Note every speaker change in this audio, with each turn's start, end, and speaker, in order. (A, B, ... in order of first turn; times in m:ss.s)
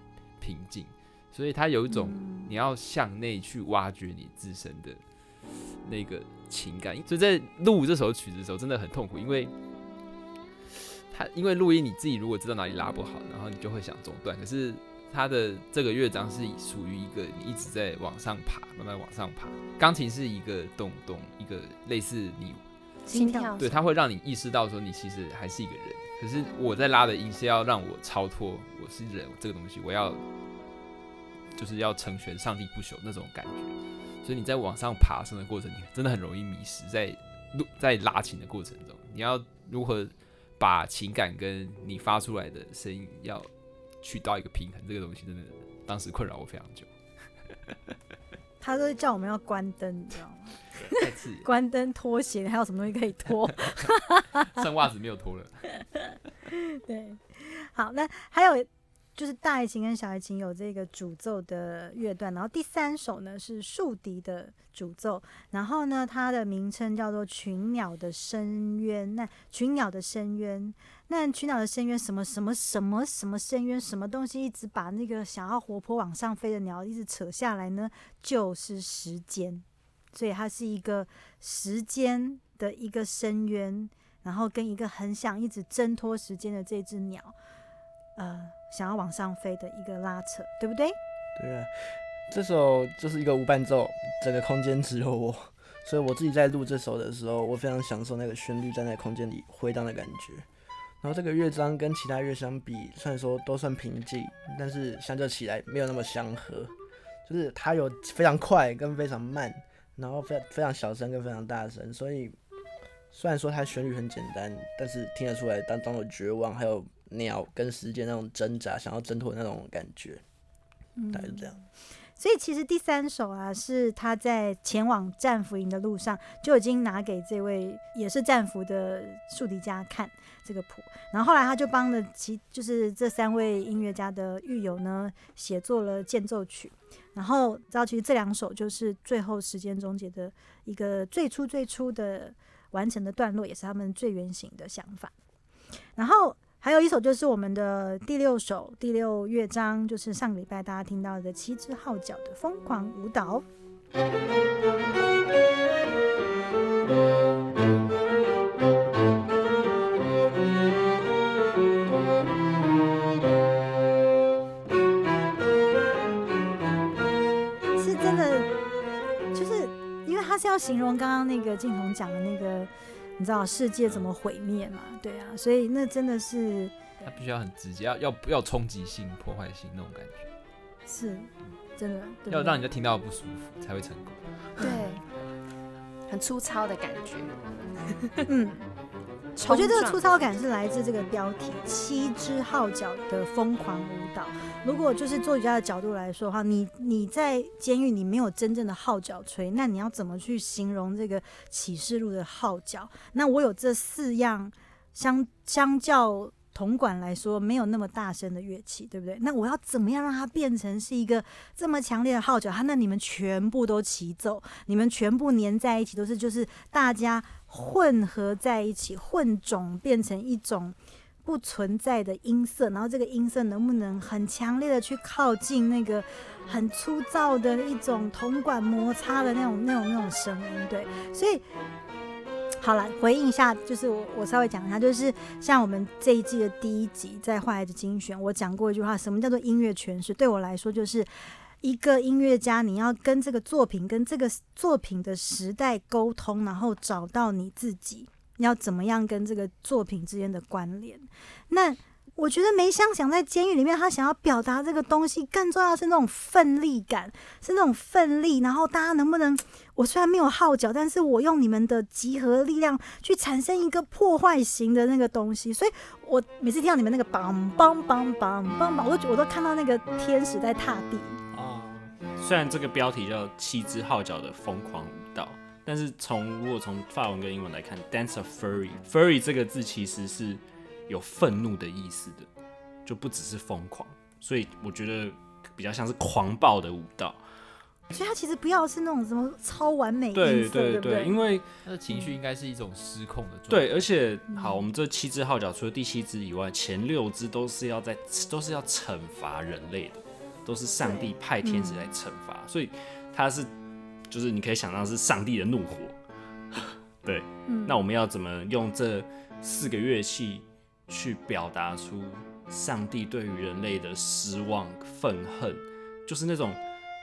0:00.4-0:09.5 A
0:01.9-0:02.5 B
0:10.7-0:22.6 A
0:23.0-0:23.6 B
0:23.1-0:23.8 C
0:23.6-0:30.2 A
0:31.5-0:43.5 A
0:44.0-0:46.9 A
0:48.6-0:54.6 B
0:50.9-0:51.5 A
0:54.5-0:55.6 A
0:56.0-1:27.3 B
1:28.2-1:31.0 B
1:31.4-1:40.4 D
1:41.0-1:46.7 D
1:47.2-1:52.4 D
1:53.1-2:00.2 D
2:01.0-2:01.6 B
2:01.1-2:01.6 D
2:02.2-2:25.1 B
2:26.0-2:33.4 B
2:47.8-2:48.5 B
2:49.3-2:57.1 B
2:57.0-3:00.3 A
3:00.8-3:02.6 B
3:02.3-3:05.3 A
3:04.6-3:05.0 C
3:06.1-3:07.4 C
3:08.3-3:08.6 B
3:09.4-3:51.4 B
3:09.4-3:10.0 C
3:52.6-4:01.1 B
4:01.6-4:31.2 B
4:31.3-4:31.9 D
4:32.2-4:42.3 E
4:42.8-4:47.2 E
4:47.9-4:51.1 B
4:50.1-4:51.6 E
4:51.6-4:53.8 A
4:53.5-5:03.5 E
5:00.8-5:01.8 B
5:04.1-5:06.0 E
5:06.5-5:16.6 E
5:07.5-5:07.8 B